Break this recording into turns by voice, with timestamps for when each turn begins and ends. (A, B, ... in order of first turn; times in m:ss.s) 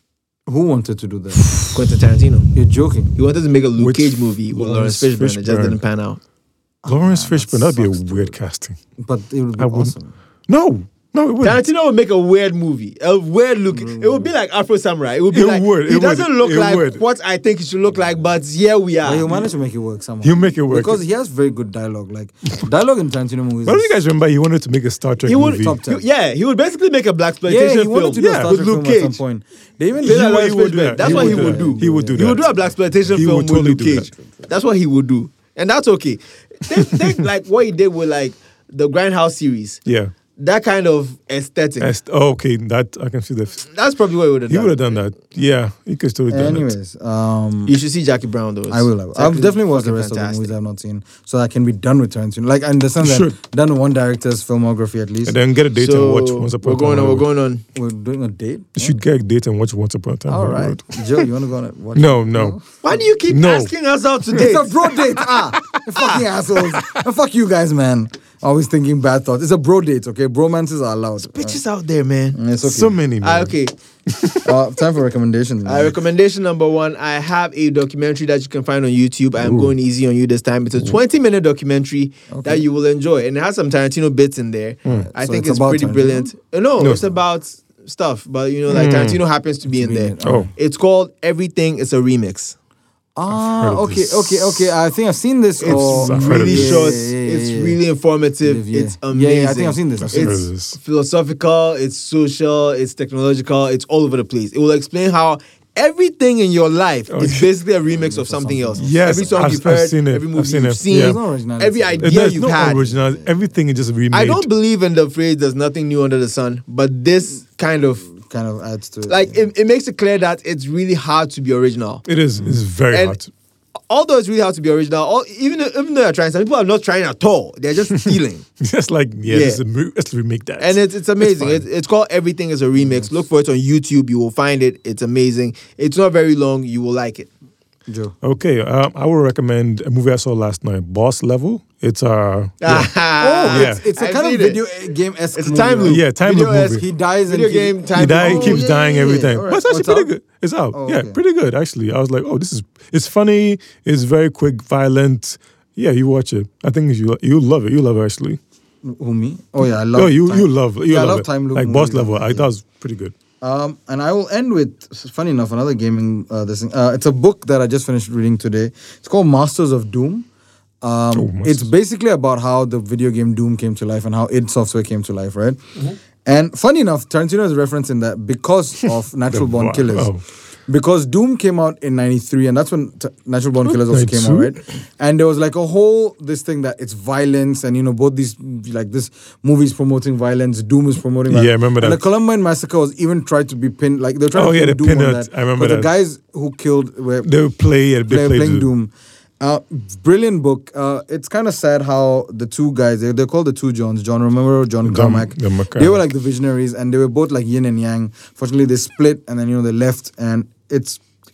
0:00.5-0:01.4 A
0:01.7-0:02.5 B
0:02.5-0:03.1 A
0:03.2-0:06.2 B
0:03.8-0:05.8 C
0:06.8-0:08.4 A
0:06.9-0:08.8 C
0:09.0-0:10.1 A
0:09.6-0:09.9 C
0:10.5-0:11.6 C
0:11.4-0:19.3 B
0:13.7-0:14.3 A
0:15.3-0:17.0 C
0:19.0-0:23.9 A
0:20.2-0:21.0 C
0:23.6-0:25.8 C
0:25.2-0:29.2 B
0:25.5-0:26.0 A
0:27.4-0:32.7 A
0:28.2-0:28.5 C
0:30.0-0:32.4 C
0:30.0-0:39.8 B
0:33.1-0:34.1 C
0:34.1-0:34.5 A
0:36.9-0:37.2 C
0:39.8-0:40.1 C
0:40.4-0:41.9 B
0:41.8-0:43.7 C
0:43.7-0:45.0 B
0:44.5-0:46.7 C
0:46.3-0:47.8 A
0:47.7-0:50.5 B
0:48.7-0:55.4 A
0:53.0-0:53.3 C
0:55.2-0:57.3 C
0:55.8-0:57.6 B
0:57.7-0:59.0 A
0:58.8-1:01.2 C
1:00.3-1:02.6 A
1:02.0-1:02.6 C
1:02.8-1:04.7 B
1:03.3-1:03.7 C
1:04.3-1:11.6 A
1:05.5-1:05.8 C
1:06.0-1:06.2 B
1:06.6-1:07.0 C
1:11.2-1:12.4 B
1:12.3-1:13.0 A
1:12.6-1:13.5 C
1:13.2-1:13.7 B
1:14.1-1:14.6 C
1:14.4-1:15.9 A
1:15.6-1:32.6 B
1:19.4-1:19.7 C
1:22.3-1:22.6 A
1:24.9-1:26.3 A
1:26.8-1:27.1 C
1:28.7-1:29.2 C
1:29.8-1:30.5 A
1:30.2-1:30.5 C
1:33.2-1:37.8 A
1:33.3-1:34.7 C
1:35.6-1:52.9 B
1:35.6-1:36.9 C
1:38.4-1:40.4 A
1:40.0-1:40.8 C
1:47.1-1:47.5 C
1:47.9-1:49.5 A
1:48.8-1:51.2 C
1:50.9-1:53.3 A
1:52.0-1:54.5 C
1:54.1-1:58.1 B
1:58.1-1:59.4 A
1:59.1-2:02.0 B
2:02.0-2:03.3 C
2:02.9-2:03.2 B
2:03.9-2:08.4 B
2:08.6-2:11.6 C
2:09.3-2:09.6 B
2:10.6-2:17.3 B
2:12.8-2:13.1 A
2:17.9-2:18.1 A
2:18.2-2:22.9 C
2:22.6-2:24.6 B
2:23.2-2:30.1 A
2:23.5-2:23.8 C
2:25.4-2:29.2 B
2:25.8-2:26.8 C
2:27.9-2:38.4 C
2:30.7-2:31.2 A
2:38.8-2:42.5 A
2:39.9-2:43.1 C
2:43.4-2:50.3 A
2:50.8-2:55.6 A
2:51.1-2:51.7 C
2:56.2-3:00.1 A
2:58.8-3:00.2 C
3:00.7-3:17.3 A
3:03.7-3:04.6 C
3:11.3-3:12.0 C
3:14.3-3:15.9 C
3:17.2-3:18.7 C
3:18.1-3:31.0 A
3:24.8-3:25.9 C